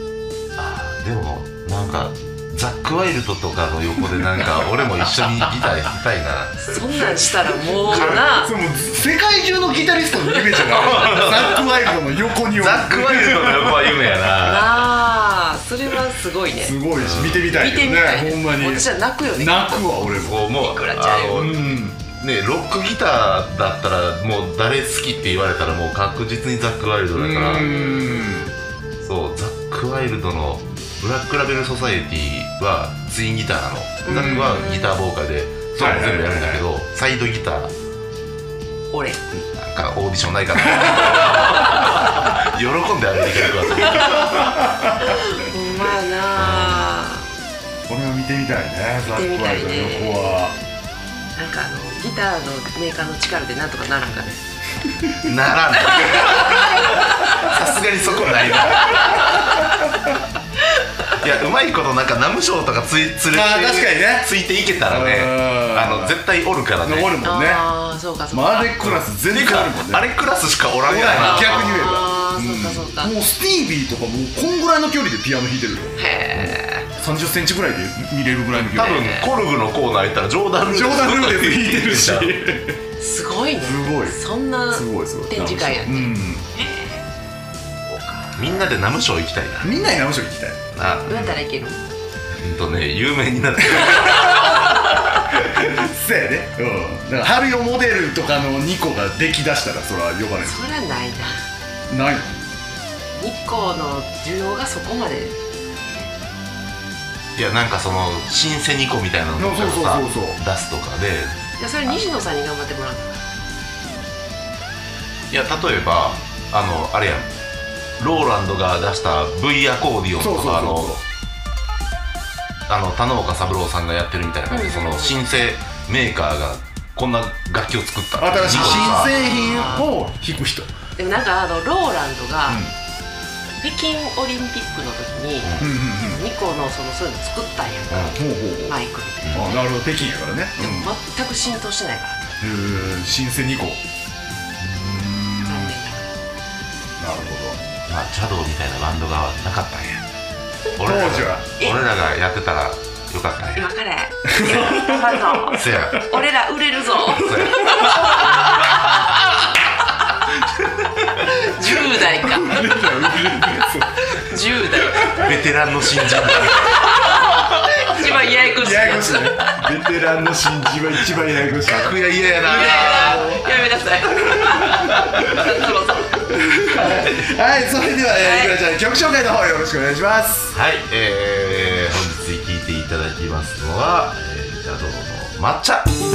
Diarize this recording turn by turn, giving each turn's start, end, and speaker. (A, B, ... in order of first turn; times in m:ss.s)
0:00.6-0:06.8 A
0:06.6-0:08.5 B
0:07.8-0:14.0 C
0:07.8-0:08.2 A
0:10.3-0:10.9 B
0:10.7-0:11.7 A
0:12.5-0:14.9 A
0:14.4-0:16.8 B
0:16.6-0:20.5 C
0:17.0-0:17.7 A
0:17.5-0:21.5 B
0:20.1-0:27.7 A
0:21.3-0:22.0 C
0:27.1-0:28.5 C
0:27.5-0:28.4 B
0:29.0-0:37.7 A
0:34.0-0:34.9 B
0:34.1-0:34.7 C
0:35.8-0:36.6 C
0:38.9-0:39.2 B
0:39.5-0:44.7 A
0:44.6-0:44.9 C
0:45.0-0:47.3 B
0:46.4-0:46.9 A
0:47.9-0:50.6 C
0:49.1-0:50.4 B
0:51.3-0:54.6 B
0:55.2-0:59.4 A
0:55.9-0:57.5 B
0:58.1-0:59.3 C
0:58.7-0:59.7 B
1:01.1-1:07.2 A
1:03.3-1:04.3 C
1:04.8-1:06.2 C
1:06.8-1:07.7 C
1:07.2-1:08.8 B
1:08.3-1:10.1 C
1:08.8-1:12.0 A
1:10.8-1:19.2 C
1:11.2-1:13.1 B
1:16.0-1:16.9 B
1:18.6-1:22.4 A
1:18.8-1:19.3 B
1:20.7-1:22.8 C
1:23.0-1:27.0 B
1:23.6-1:24.2 C
1:24.7-1:26.4 C
1:27.9-1:28.6 B
1:28.4-1:29.9 A
1:29.6-1:30.6 C
1:30.7-1:31.4 A
1:31.1-1:31.8 B
1:32.4-1:34.9 A
1:33.8-1:34.5 C
1:35.3-1:40.6 C
1:40.4-1:41.4 B
1:41.9-1:42.4 C
1:43.2-1:45.3 B
1:47.4-1:51.4 A
1:49.4-1:50.4 C
1:51.6-1:53.2 B
1:55.3-1:57.3 A
1:58.0-2:01.0 A
2:00.2-2:01.0 C
2:02.7-2:09.7 A
2:04.5-2:05.2 B
2:08.2-2:10.7 C
2:08.5-2:09.9 B
2:11.0-2:12.6 B
2:12.5-2:12.7 C
2:13.6-2:19.6 B
2:15.4-2:15.7 A
2:15.6-2:16.2 C
2:17.9-2:18.2 A
2:18.2-2:18.8 C
2:19.3-2:20.9 C
2:20.6-2:22.3 B
2:22.4-2:23.8 C
2:24.6-2:25.7 C
2:25.4-2:26.1 B
2:27.0-2:27.6 C
2:27.9-2:30.0 A
2:30.8-2:33.7 A
2:30.8-2:31.4 C
2:33.6-2:38.7 B
2:34.3-2:35.6 C
2:34.4-2:34.8 A
2:35.5-2:36.2 A
2:37.0-2:38.5 A
2:37.2-2:38.2 C
2:41.2-2:42.8 B
2:42.2-2:44.3 C
2:44.0-2:45.3 B
2:44.9-2:45.4 C
2:45.2-2:47.4 A
2:46.3-2:49.5 B
2:48.4-2:53.5 C
2:51.6-2:53.4 A
2:52.4-2:56.3 B
2:54.3-2:55.0 C
2:56.3-3:00.5 C
2:58.2-2:58.6 B
3:00.5-3:05.9 A